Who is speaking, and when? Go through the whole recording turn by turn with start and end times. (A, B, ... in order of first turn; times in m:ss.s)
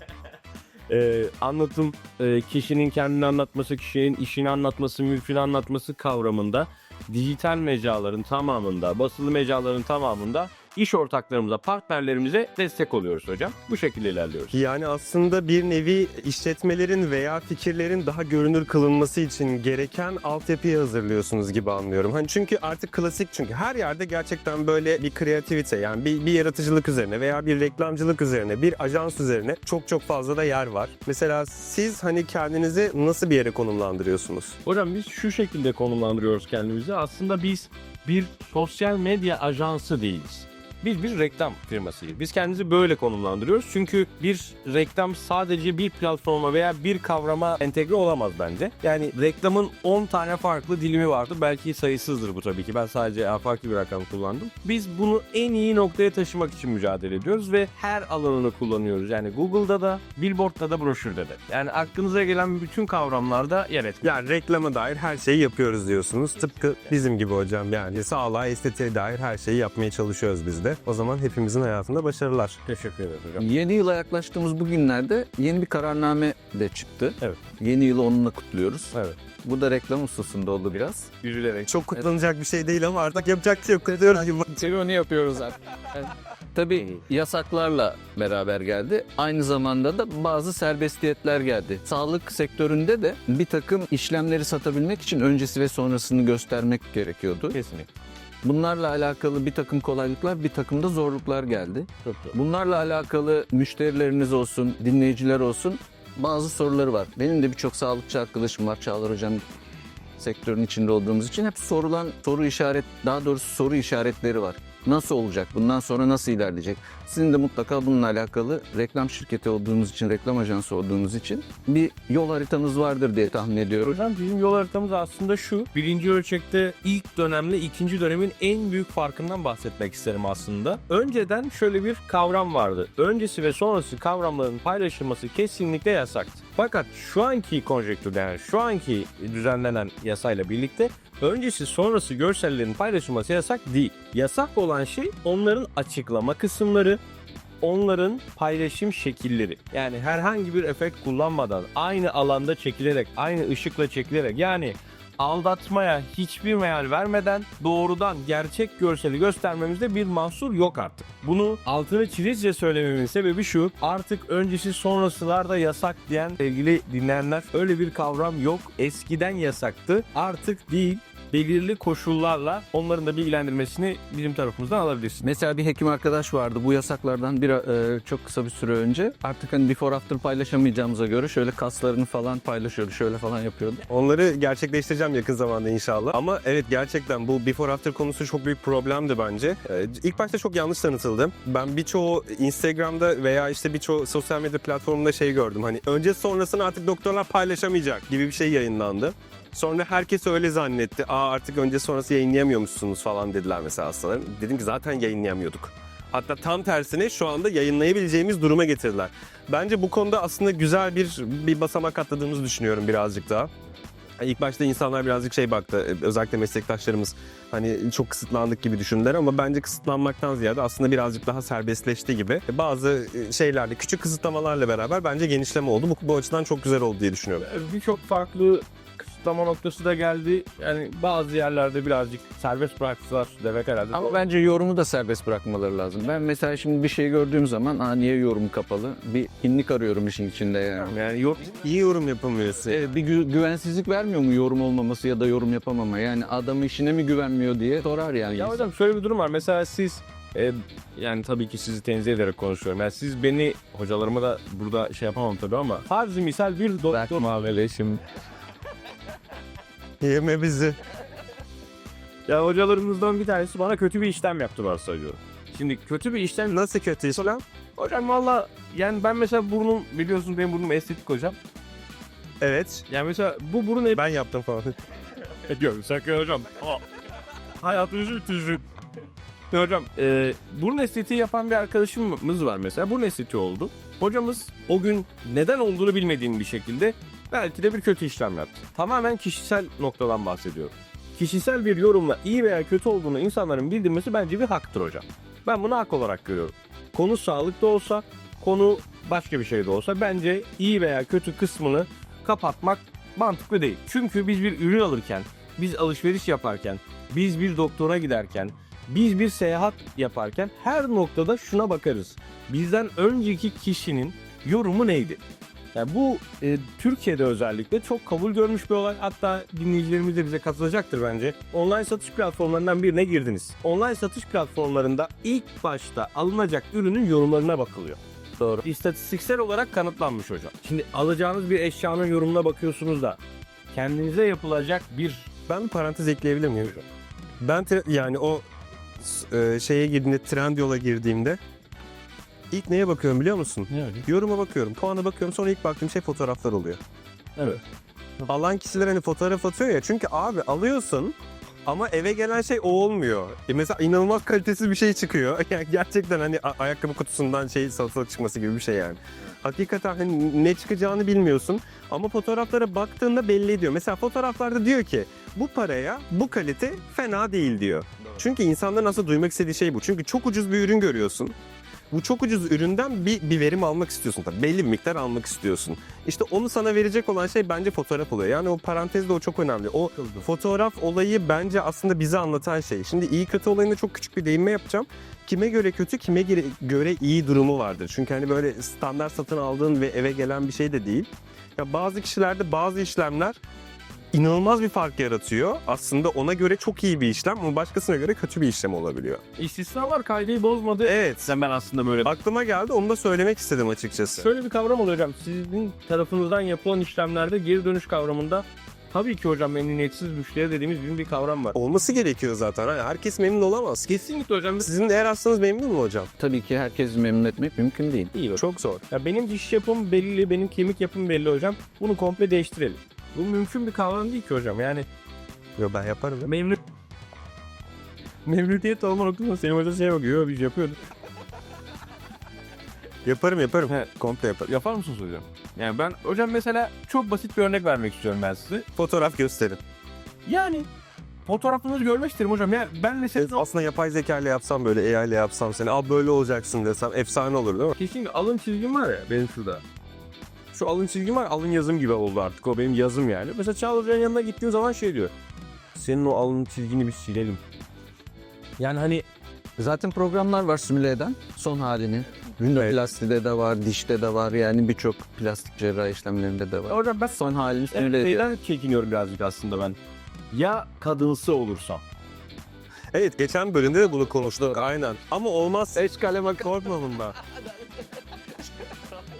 0:00.9-0:14.6 A
0:14.5-0:34.6 B
0:34.6-1:04.1 A
1:04.0-1:12.6 B
1:12.7-1:13.4 A
1:13.4-1:21.1 C
1:21.2-1:21.7 A
1:21.7-1:24.7 B
1:24.5-1:37.6 C
1:37.5-1:37.9 A
1:38.4-1:49.5 C
1:42.0-1:42.3 A
1:50.2-2:04.0 C
2:03.8-2:27.0 A
2:27.6-2:55.2 A
2:55.2-3:03.9 C
3:03.9-3:33.5 B
3:34.2-3:47.5 B
3:47.4-3:54.2 A
3:53.9-4:00.9 C
4:00.9-4:01.6 A
4:01.6-4:02.9 B
4:02.7-4:08.6 C
4:08.3-4:17.8 A
4:16.9-4:18.0 C
4:20.0-4:20.8 B
4:22.3-4:26.5 A
4:26.5-4:27.4 B
4:27.8-4:31.4 A
4:32.4-4:32.9 B
4:32.9-4:34.0 A
4:33.9-4:34.8 B
4:35.4-4:36.8 A
4:37.6-4:38.6 A
4:39.5-5:15.2 A
5:15.7-5:28.0 A
5:28.4-5:28.6 C
5:28.6-5:33.2 A
5:33.7-5:35.3 A
5:35.5-5:36.8 B
5:37.4-5:38.4 B
5:39.0-5:41.4 B
5:42.5-5:46.8 B
5:43.7-5:44.1 A
5:47.4-5:47.6 A
5:48.2-6:11.4 B
6:11.9-6:33.4 B
6:20.0-6:20.2 A
6:34.1-6:39.2 B
6:39.4-6:42.1 A
6:40.9-6:41.3 B
6:42.0-6:44.3 B
6:44.2-6:51.6 A
6:51.5-6:54.0 B
6:53.9-6:54.7 A
6:54.6-6:56.1 B
6:56.2-6:58.1 C
6:58.1-7:04.9 A
6:58.4-6:58.8 B
7:05.6-7:06.3 B
7:06.2-7:06.6 A
7:08.2-7:10.8 A
7:13.0-7:14.5 B
7:14.4-7:18.6 A
7:18.8-7:19.6 B
7:20.3-7:20.7 A
7:21.3-7:23.4 A
7:23.2-7:27.8 B
7:27.8-7:29.6 A
7:30.5-7:35.1 A
7:35.8-7:37.4 A
7:38.6-7:39.1 A
7:39.6-7:48.2 C
7:46.7-7:47.2 A
7:47.7-7:49.8 A
7:50.3-7:51.8 A
7:52.9-7:57.2 B
7:55.9-7:56.3 C